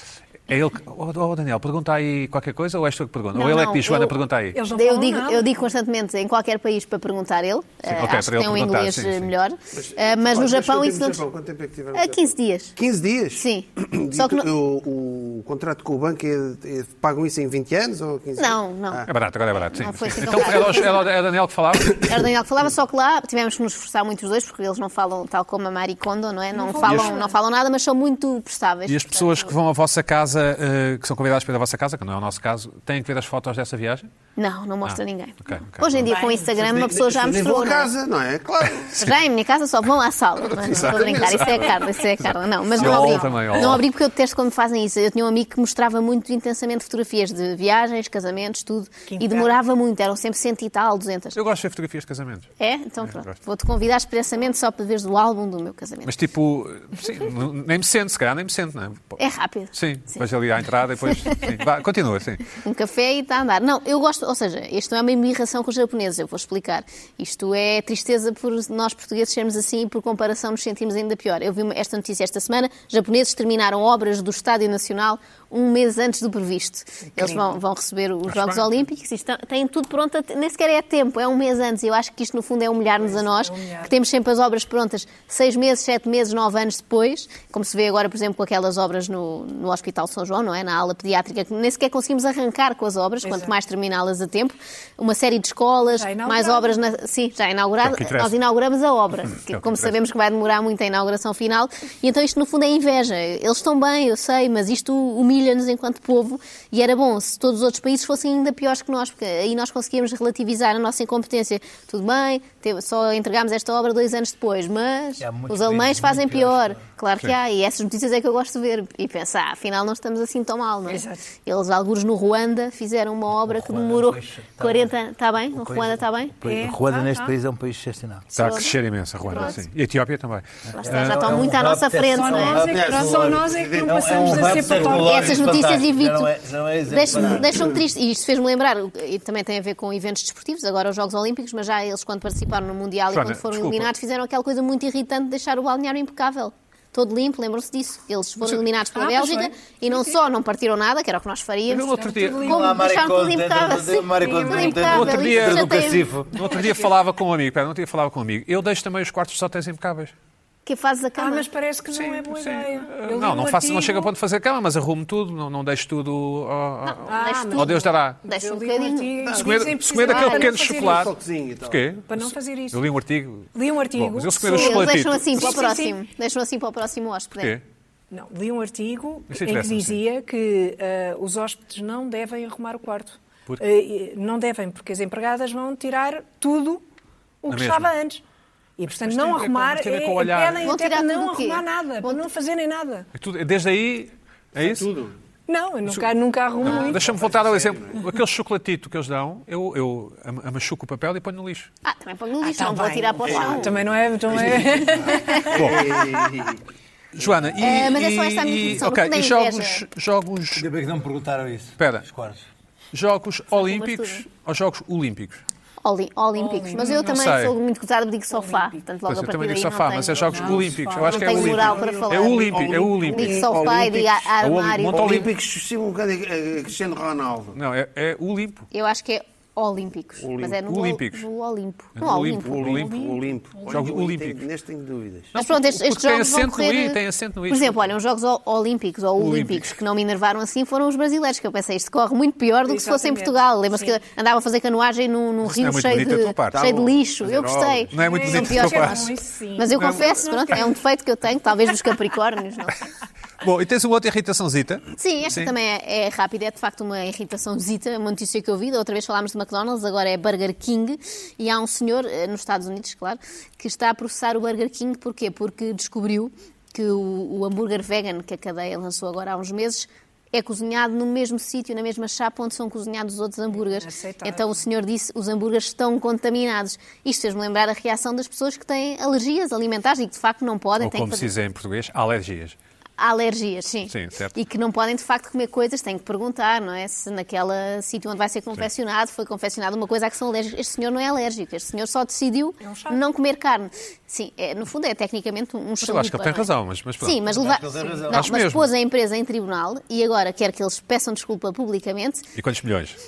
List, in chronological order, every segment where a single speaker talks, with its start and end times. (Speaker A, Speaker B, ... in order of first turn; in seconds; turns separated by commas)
Speaker A: 0.5-4.6, Speaker B: 3.3-4.2, Speaker C: 4.5-5.6, Speaker B: 4.7-11.2, Speaker A: 7.9-9.3, Speaker D: 9.7-19.1, Speaker B: 11.9-12.8, Speaker B: 13.4-14.5, Speaker B: 18.4-19.1, Speaker A: 19.1-22.0, Speaker B: 19.6-21.0, Speaker B: 22.0-29.5, Speaker C: 26.5-27.4, Speaker A: 26.8-27.1, Speaker A: 28.9-34.1, Speaker B: 34.4-37.9, Speaker A: 34.9-36.1, Speaker C: 36.1-36.5, Speaker D: 36.6-39.1, Speaker B: 39.0-51.4, Speaker A: 40.7-41.7, Speaker C: 40.8-42.1, Speaker A: 42.2-43.8, Speaker C: 42.7-43.8, Speaker C: 49.1-49.5, Speaker A: 51.3-52.5, Speaker B: 52.6-56.1, Speaker A: 53.1-53.3, Speaker A: 56.0-59.2, Speaker B: 59.2-59.7, Speaker A: 59.7-62.5, Speaker B: 62.5-126.3, Speaker C: 77.2-77.5, Speaker A: 78.3-78.7, Speaker C: 83.0-83.9, Speaker C: 93.2-93.5, Speaker C: 95.8-96.8, Speaker A: 97.8-98.3, Speaker A: 99.5-100.0, Speaker E: 115.2-116.8, Speaker C: 120.9-121.2, Speaker E: 123.3-124.9, Speaker E: 125.5-128.3, Speaker C: 126.5-127.3, Speaker A: 128.3-131.3, Speaker B: 128.4-128.7, Speaker C: 128.4-128.7, Speaker C: 129.3-129.6, Speaker B: 129.3-129.6, Speaker B: 130.7-132.7, Speaker E: 130.8-137.8, Speaker C: 132.1-135.5, Speaker D: 132.7-135.1, Speaker B: 135.0-136.3, Speaker B: 136.9-156.0, Speaker A: 143.1-143.9, Speaker C: 148.9-150.2, Speaker A: 151.7-152.5, Speaker C: 151.9-152.7, Speaker E: 152.4-156.4, Speaker C: 154.2-155.1, Speaker A: 154.8-160.1, Speaker B: 160.7-161.4, Speaker C: 161.2-164.1, Speaker A: 161.9-168.2, Speaker B: 166.9-169.5, Speaker C: 167.1-171.1, Speaker A: 169.3-171.1, Speaker B: 170.0-170.6, Speaker D: 170.3-171.8, Speaker A: 171.7-175.6, Speaker C: 172.1-172.8, Speaker C: 173.6-176.0, Speaker B: 174.4-177.6, Speaker C: 178.1-186.8, Speaker A: 179.3-180.0, Speaker C: 187.4-188.2, Speaker A: 187.5-187.9, Speaker C: 188.8-193.1, Speaker A: 189.0-190.7, Speaker B: 190.6-192.2, Speaker A: 193.2-194.9, Speaker D: 194.6-195.1, Speaker C: 195.5-197.0, Speaker A: 196.6-201.7, Speaker D: 196.7-198.1, Speaker B: 201.8-203.7, Speaker C: 202.4-206.3, Speaker D: 203.3-203.7, Speaker D: 204.3-206.6, Speaker B: 205.1-205.7, Speaker A: 205.5-205.8, Speaker A: 207.1-210.7, Speaker B: 207.6-209.8, Speaker E: 210.5-212.4, Speaker A: 211.8-212.1, Speaker A: 212.9-215.4, Speaker B: 213.6-214.2, Speaker B: 215.8-225.3, Speaker C: 216.3-217.3, Speaker A: 217.0-217.6, Speaker C: 218.3-218.7, Speaker A: 219.1-223.4, Speaker C: 220.3-221.9, Speaker D: 220.4-224.3, Speaker C: 223.2-223.4, Speaker A: 224.4-225.3, Speaker D: 224.8-227.6, Speaker A: 227.6-228.7, Speaker B: 228.7-232.9, Speaker D: 230.2-230.6, Speaker A: 230.4-231.2, Speaker A: 232.0-232.9, Speaker D: 232.4-235.3, Speaker C: 232.7-233.9, Speaker A: 233.7-234.4, Speaker A: 235.3-237.9, Speaker B: 235.3-252.8, Speaker A: 239.2-239.8, Speaker C: 242.7-244.0, Speaker A: 245.4-246.8, Speaker D: 246.5-247.9, Speaker A: 247.9-249.1, Speaker C: 247.9-250.8, Speaker A: 249.8-250.2, Speaker A: 253.4-255.5, Speaker B: 255.0-281.3, Speaker C: 273.5-274.6, Speaker A: 280.8-282.6, Speaker B: 283.0-296.5, Speaker A: 283.9-284.4, Speaker C: 292.6-293.0, Speaker A: 295.8-297.2, Speaker B: 297.0-302.3, Speaker E: 297.2-298.4, Speaker A: 298.1-298.7, Speaker A: 302.4-303.0